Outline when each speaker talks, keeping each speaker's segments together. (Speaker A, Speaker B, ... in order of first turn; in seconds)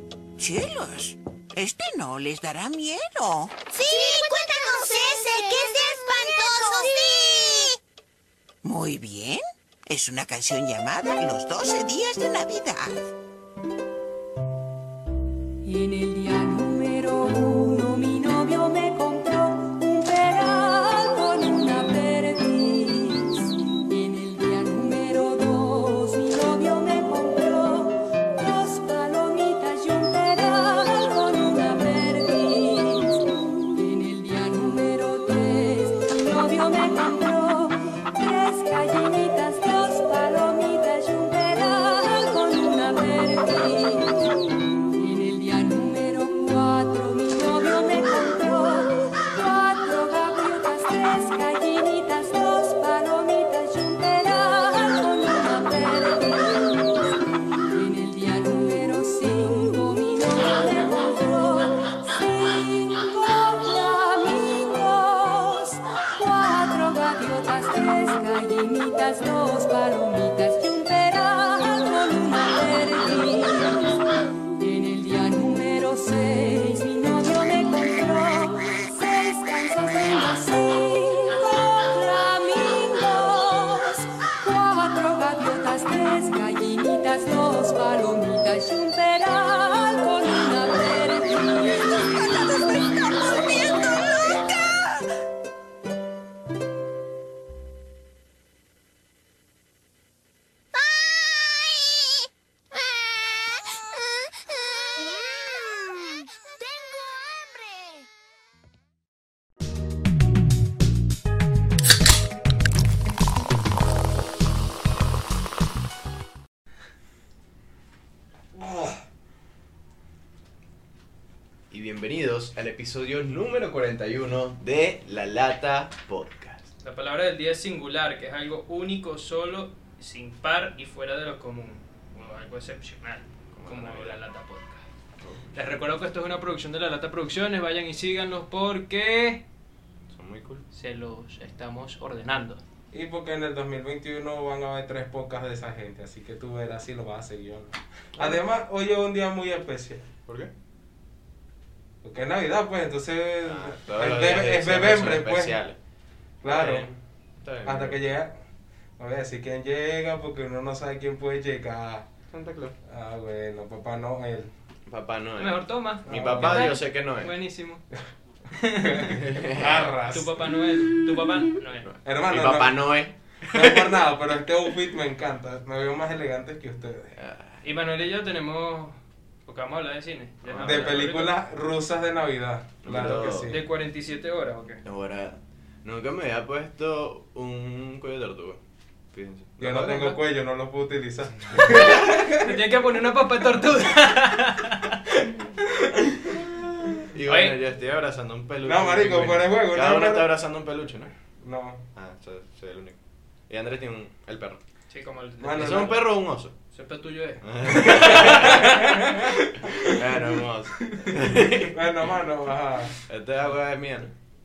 Speaker A: 0.4-7.0, 8.6-13.0, 92.1-94.8
Speaker B: 3.7-7.7, 93.7-94.4, 100.8-102.0, 103.1-103.8, 104.7-108.1
Speaker C: 15.6-44.4, 44.9-57.1, 57.7-74.0, 74.6-92.7
Speaker D: 118.5-119.0, 142.9-150.1, 152.0-155.6, 156.4-156.9, 157.7-158.3, 159.0-162.1, 162.9-164.5, 166.1-166.7, 168.8-170.3, 172.0-172.8, 173.5-177.1, 180.6-183.6, 189.6-192.6, 198.7-200.3, 201.4-201.8, 205.4-206.0, 207.9-209.2, 211.7-212.9
Speaker E: 121.7-126.7, 133.5-134.2, 135.2-135.6, 140.1-140.7, 153.5-155.8, 156.5-156.9, 157.4-158.1, 162.3-162.8, 164.9-167.3, 169.1-169.9, 170.8-174.0, 177.2-177.6, 180.4-181.0, 182.8-183.6, 184.8-188.6, 189.1-190.2, 191.6-191.8, 196.3-201.1, 202.0-203.0, 203.5-204.6, 205.6-206.5, 207.4-208.8, 209.9-211.8, 213.1-214.1
Speaker F: 126.8-134.8, 135.5-139.4, 140.7-142.6, 165.4-167.8, 168.5-171.9, 177.6-181.3, 183.5-184.8, 191.7-195.5, 197.3-197.6, 204.9-206.1, 206.7-210.0, 210.8-211.2